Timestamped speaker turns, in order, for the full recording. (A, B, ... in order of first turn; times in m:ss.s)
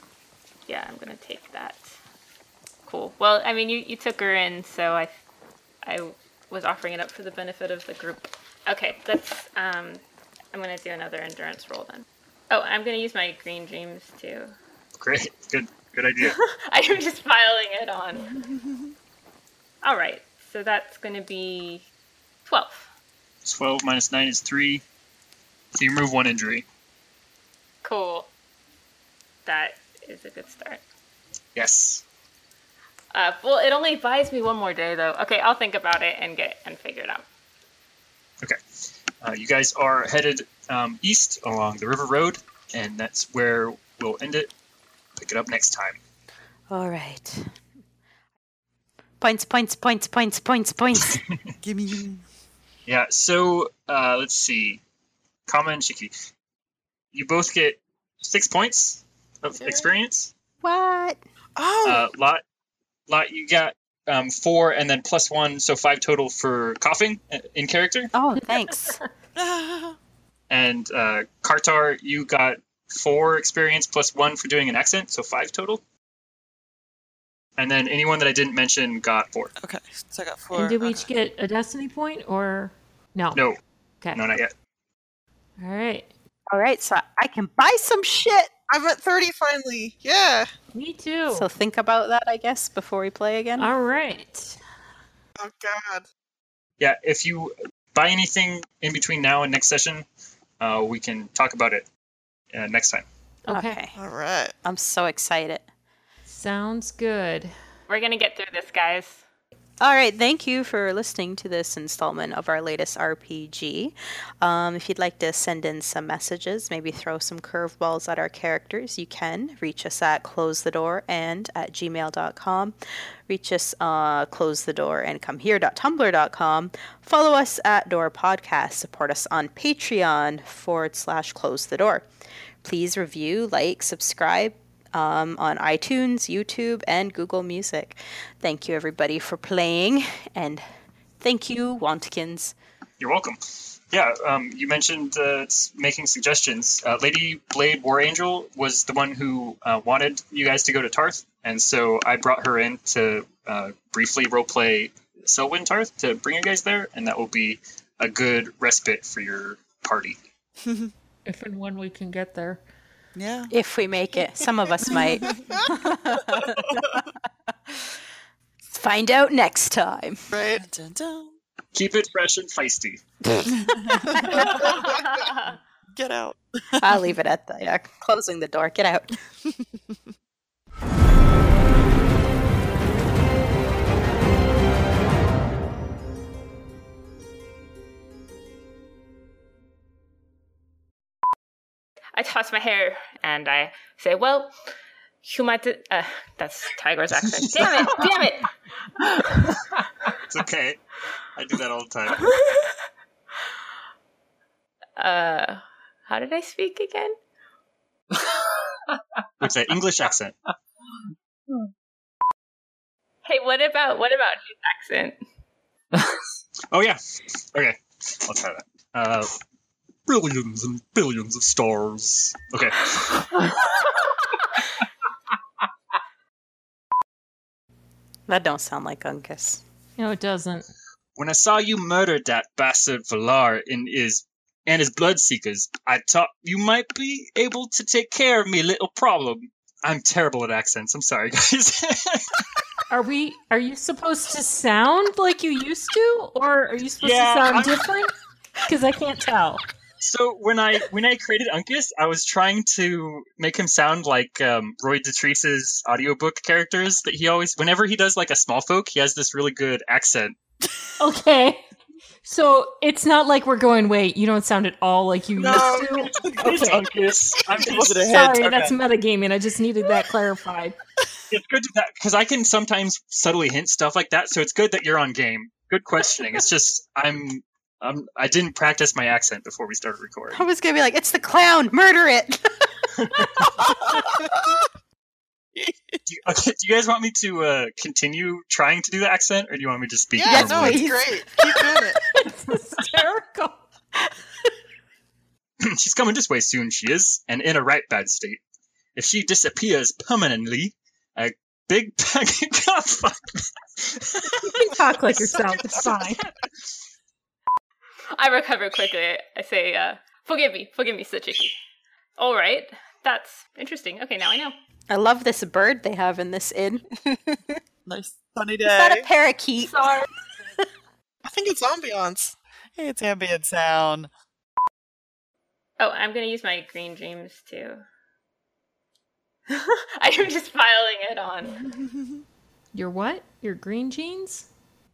0:00.7-0:02.0 A
0:02.9-0:05.1 A
0:05.8-0:10.0 A
0:10.5-0:14.6 A
0:15.0-0:16.4 B
0:16.2-0:18.3 A
0:19.8-0:21.9 A
0:22.5-0:22.9 A
0:23.4-0:24.8 B
0:25.8-0:26.6 B
0:27.8-0:28.3 A
0:29.5-0:30.8 A
0:31.6-0:32.0 B
0:33.1-0:37.2 A
0:39.2-0:44.5 B
0:45.2-0:46.0 B
0:46.7-0:47.5 C
0:49.2-0:51.2 C
0:51.0-0:51.4 B
0:51.6-0:52.2 D
0:52.9-0:54.8 B
0:55.5-0:56.1 B
0:57.1-1:00.3 B
0:59.5-0:59.9 E
1:00.6-1:01.2 C
1:01.6-1:02.0 E
1:01.8-1:02.4 B
1:03.1-1:08.1 B
1:08.1-1:09.0 C
1:08.5-1:09.0 F
1:09.4-1:10.0 D
1:10.5-1:15.8 B
1:17.6-1:19.5 B
1:19.6-1:21.1 D
1:20.5-1:23.4 F
1:23.4-1:23.6 B
1:24.1-1:24.5 B
1:25.6-1:26.1 F
1:26.5-1:28.5 C
1:28.7-1:30.5 E
1:30.7-1:31.5 F
1:31.3-1:33.7 C
1:33.6-1:34.6 F
1:35.4-1:36.0 E
1:36.8-1:40.1 B
1:40.6-1:41.8 B
1:42.5-1:43.0 B
1:43.5-1:43.8 F
1:43.5-1:43.9 C
1:44.0-1:44.5 E
1:44.6-1:45.6 C
1:46.3-1:47.5 F
1:47.9-1:49.2 A
1:49.8-2:02.8 C
2:03.3-2:12.1 C
2:12.6-2:20.6 C
2:21.2-2:22.5 C
2:23.0-2:40.2 B
2:40.6-2:40.9 D
2:41.3-2:42.6 F
2:43.2-2:43.5 D
2:43.5-2:47.0 C
2:44.8-2:45.5 D
2:48.7-2:50.2 C
2:50.3-2:50.6 E
2:50.6-2:51.4 D
2:51.7-2:53.0 B
2:54.1-2:54.4 C
2:54.3-2:54.8 D
2:54.4-2:55.2 E
2:55.9-2:57.1 D
2:56.8-2:59.1 C
3:12.2-3:14.6 A
3:15.2-3:18.5 A
3:20.2-3:20.8 B
3:21.4-3:22.2 B
3:25.0-3:27.2 A
3:29.4-3:30.4 B
3:33.3-3:35.2 A
3:36.7-3:37.0 B
3:37.5-3:39.4 B
3:40.1-3:43.4 B
3:48.3-3:49.6 C
3:50.0-3:50.7 F
3:51.2-4:02.4 B
4:02.9-4:08.1 F
4:07.0-4:07.9 B
4:08.7-4:09.6 F
4:10.0-4:20.4 B
4:21.0-4:21.6 F
4:22.2-4:26.8 F
4:25.4-4:28.1 B
4:26.2-4:26.5 D
4:27.4-4:28.8 D
4:28.0-4:30.8 F
4:31.3-4:40.4 B
4:40.3-4:42.7 C
4:43.2-4:43.4 C
4:46.1-4:50.9 B
4:50.1-4:52.0 E
4:50.2-4:51.6 C
4:52.1-4:53.6 F
4:55.6-4:58.4 B
4:59.0-5:04.3 B
5:04.4-5:06.2 F
5:08.2-5:11.6 A
5:12.2-5:14.6 A
5:14.9-5:16.8 C
5:17.9-5:19.1 D
5:18.6-5:19.9 C
5:19.7-5:20.0 A
5:21.3-5:22.4 E
5:22.8-5:24.1 D
5:25.8-5:27.8 A
5:29.5-5:31.6 A
5:32.7-5:34.5 F